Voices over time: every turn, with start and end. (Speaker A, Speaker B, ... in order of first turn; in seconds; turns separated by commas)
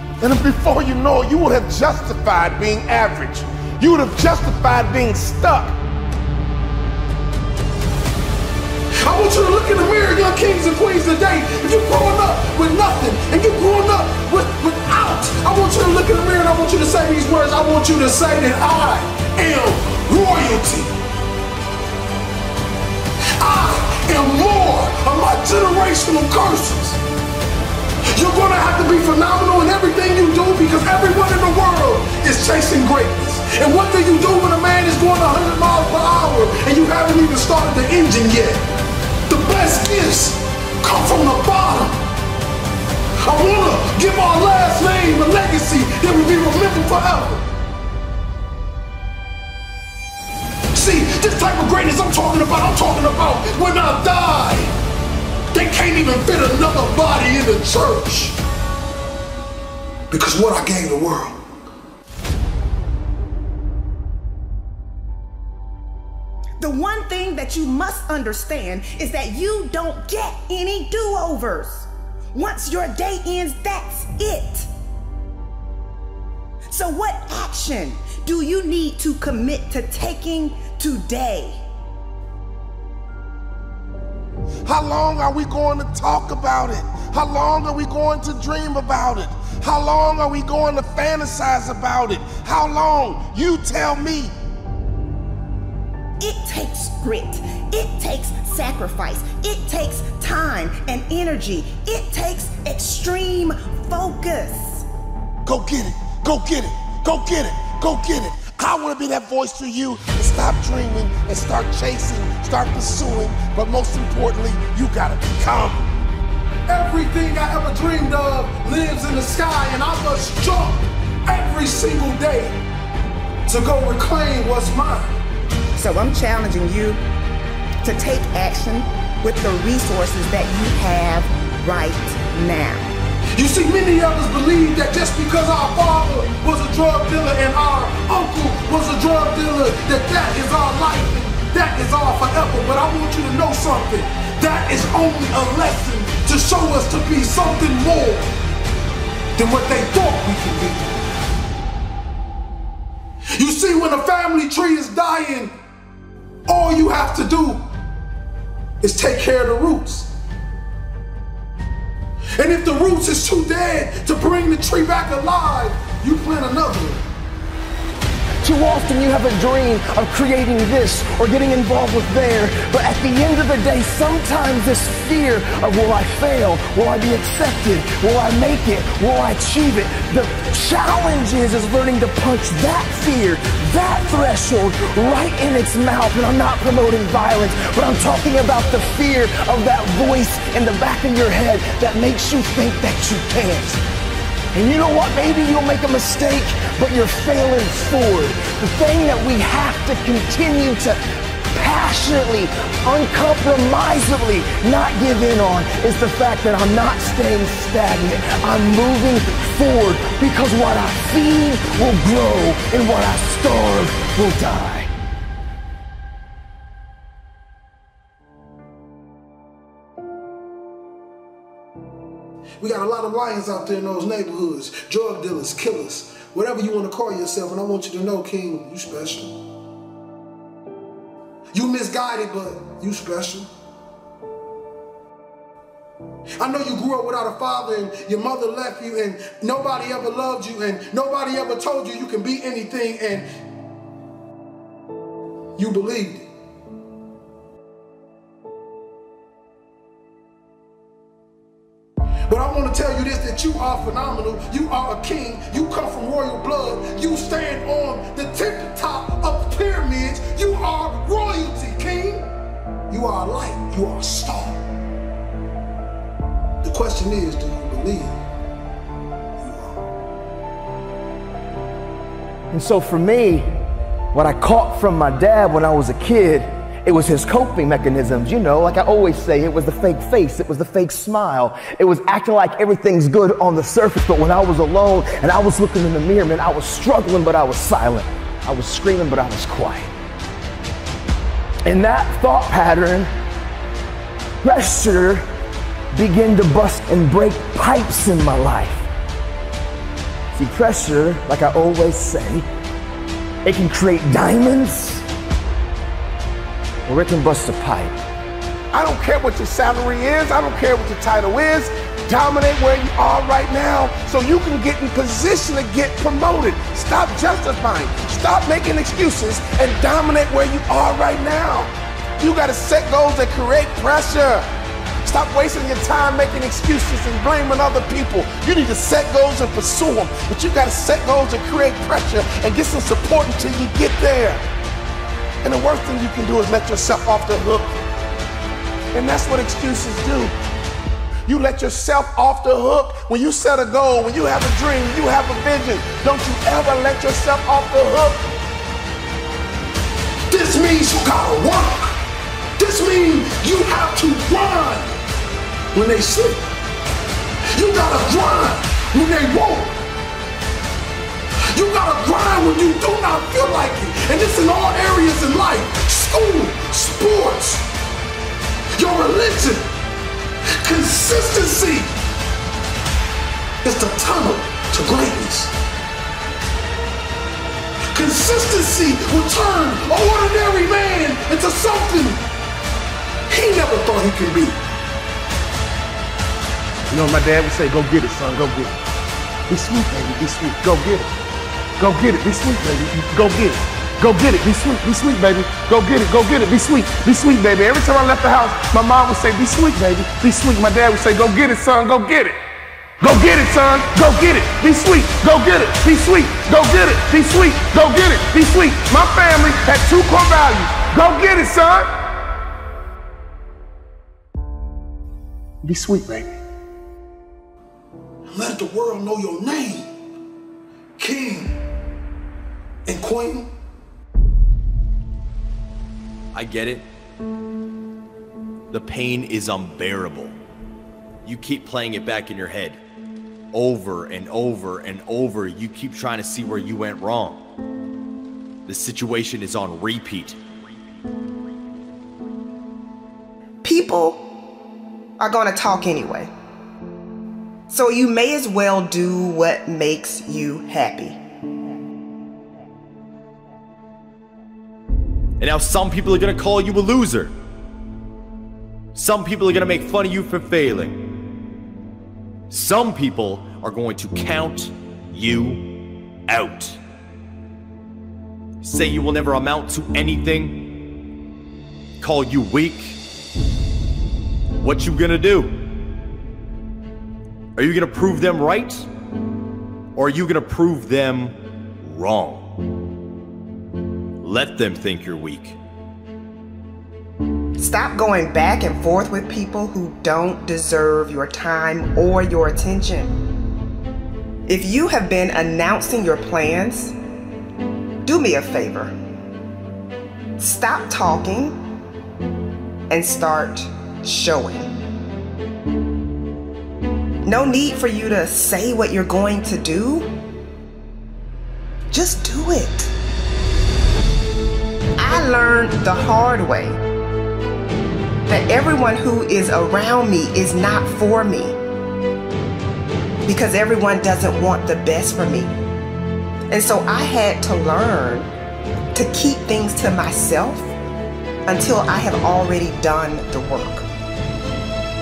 Speaker A: 0.2-5.8, Speaker B: 9.0-20.9, Speaker B: 23.4-27.0, Speaker B: 28.1-38.6, Speaker B: 39.3-42.0, Speaker B: 43.2-47.5, Speaker B: 50.7-54.7, Speaker B: 55.5-58.4, Speaker B: 60.1-61.5, Speaker C: 66.6-74.7, Speaker C: 76.7-81.6, Speaker A: 84.6-94.3, Speaker C: 96.2-104.9, Speaker A: 105.5-115.8, Speaker B: 116.7-122.6, Speaker B: 123.5-125.2, Speaker C: 125.8-127.0, Speaker C: 127.8-132.9, Speaker B: 133.4-148.3, Speaker B: 149.4-151.0, Speaker B: 153.3-155.5, Speaker B: 156.5-157.6, Speaker B: 158.8-160.1, Speaker B: 162.4-167.0, Speaker D: 168.4-193.8, Speaker D: 194.5-201.0, Speaker D: 201.5-214.9, Speaker B: 222.6-229.3, Speaker B: 231.5-233.5, Speaker B: 236.4-243.3, Speaker B: 245.6-246.3, Speaker B: 252.3-262.3, Speaker B: 262.9-264.6, Speaker B: 266.6-268.2, Speaker B: 269.4-269.8, Speaker D: 272.5-273.5, Speaker D: 274.1-289.9, Speaker D: 291.7-293.1, Speaker D: 294.4-295.2, Speaker D: 295.9-298.9, Speaker D: 300.4-302.4, Speaker D: 303.5-305.0, Speaker D: 306.9-307.9, Speaker A: 308.7-324.5, Speaker A: 325.1-334.4, Speaker A: 335.4-337.7, Speaker A: 338.9-340.3, Speaker A: 341.3-348.2, Speaker B: 350.3-352.0, Speaker B: 352.6-354.9, Speaker B: 355.7-356.4, Speaker B: 357.5-359.8, Speaker B: 361.5-367.7, Speaker B: 368.8-369.7, Speaker B: 370.6-371.9, Speaker B: 373.6-375.6, Speaker B: 377.9-382.2, Speaker B: 383.3-384.6, Speaker A: 386.9-388.8, Speaker A: 389.5-391.1, Speaker A: 391.8-402.4, Speaker A: 403.0-411.9, Speaker A: 415.6-416.4, Speaker B: 418.3-419.9, Speaker B: 421.0-421.6, Speaker B: 422.9-423.5, Speaker E: 426.3-426.9, Speaker E: 428.7-430.4, Speaker E: 431.2-432.8, Speaker E: 433.5-437.4, Speaker E: 438.6-440.4, Speaker C: 443.6-444.2, Speaker C: 445.2-446.3, Speaker C: 447.7-451.2, Speaker E: 455.4-457.4, Speaker E: 458.9-461.1, Speaker E: 462.5-465.8, Speaker E: 466.3-466.8, Speaker E: 468.6-470.7, Speaker E: 472.0-473.0, Speaker E: 474.6-475.6, Speaker E: 477.6-478.9, Speaker E: 480.0-482.6, Speaker E: 484.2-485.6, Speaker C: 487.6-493.1, Speaker C: 494.5-496.9, Speaker C: 498.1-498.9, Speaker C: 500.4-501.6, Speaker C: 502.9-504.7, Speaker C: 507.2-510.1, Speaker C: 511.9-512.9, Speaker C: 515.0-516.8, Speaker C: 518.3-521.6, Speaker C: 523.2-525.5, Speaker C: 526.5-528.3, Speaker C: 528.9-530.7, Speaker C: 531.5-533.9